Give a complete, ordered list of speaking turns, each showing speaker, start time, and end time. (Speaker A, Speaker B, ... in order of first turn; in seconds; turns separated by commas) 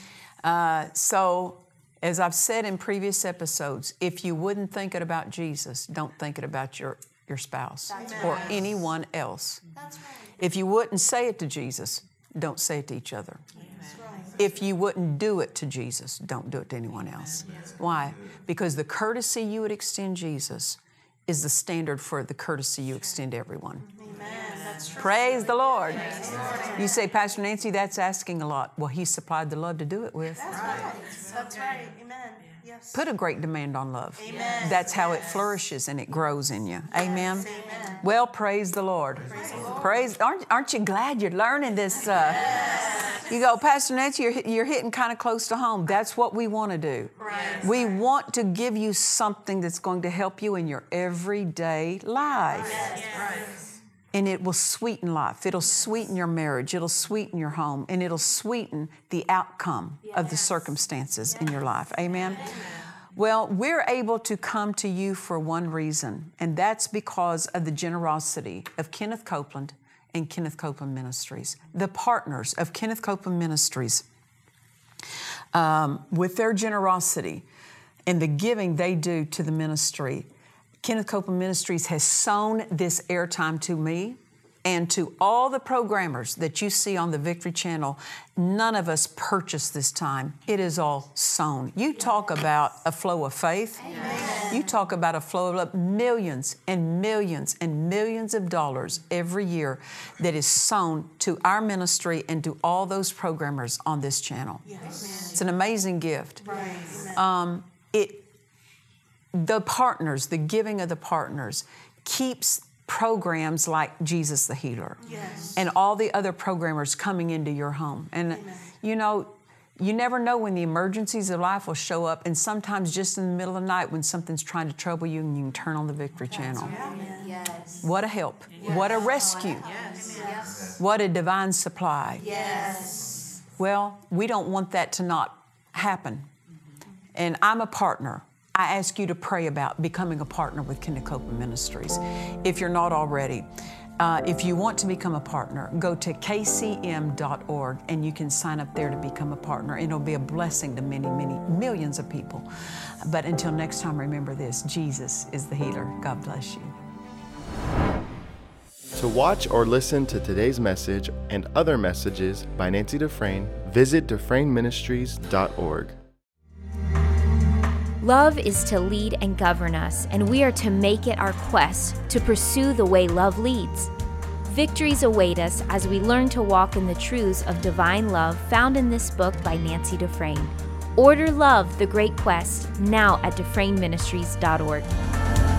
Speaker A: 0.4-9.6, Speaker B: 7.9-8.8, Speaker C: 7.9-8.7, Speaker B: 9.7-10.4, Speaker A: 10.4-13.4, Speaker C: 13.7-14.5, Speaker A: 14.4-23.9, Speaker C: 23.9-26.9, Speaker A: 24.9-30.8, Speaker B: 26.2-26.7, Speaker C: 30.3-33.1, Speaker B: 30.6-31.0, Speaker A: 32.9-53.0, Speaker C: 34.2-35.4, Speaker B: 36.9-38.0, Speaker C: 36.9-38.1, Speaker C: 39.2-40.1, Speaker C: 42.2-43.2, Speaker B: 42.7-43.0, Speaker C: 47.2-48.0, Speaker B: 52.5-53.5, Speaker C: 52.5-53.5, Speaker A: 54.1-62.6, Speaker B: 60.0-60.7, Speaker B: 61.3-62.7, Speaker A: 63.1-74.0, Speaker A: 75.5-77.4, Speaker A: 78.0-80.3, Speaker A: 80.8-104.7, Speaker B: 93.8-94.7, Speaker C: 93.9-94.7, Speaker C: 104.6-105.4, Speaker B: 104.8-105.3, Speaker A: 105.3-108.3, Speaker C: 106.4-107.2, Speaker A: 109.3-115.0, Speaker C: 115.0-115.6, Speaker A: 115.5-126.8, Speaker C: 118.3-118.7, Speaker B: 126.3-127.9, Speaker C: 126.6-127.4, Speaker A: 127.8-129.7, Speaker C: 128.6-130.6, Speaker B: 128.6-130.8, Speaker A: 130.7-132.2, Speaker B: 132.1-133.2, Speaker C: 132.2-133.2, Speaker A: 133.6-136.3, Speaker A: 137.1-156.7, Speaker D: 158.9-165.9, Speaker E: 168.0-173.9, Speaker E: 174.4-184.9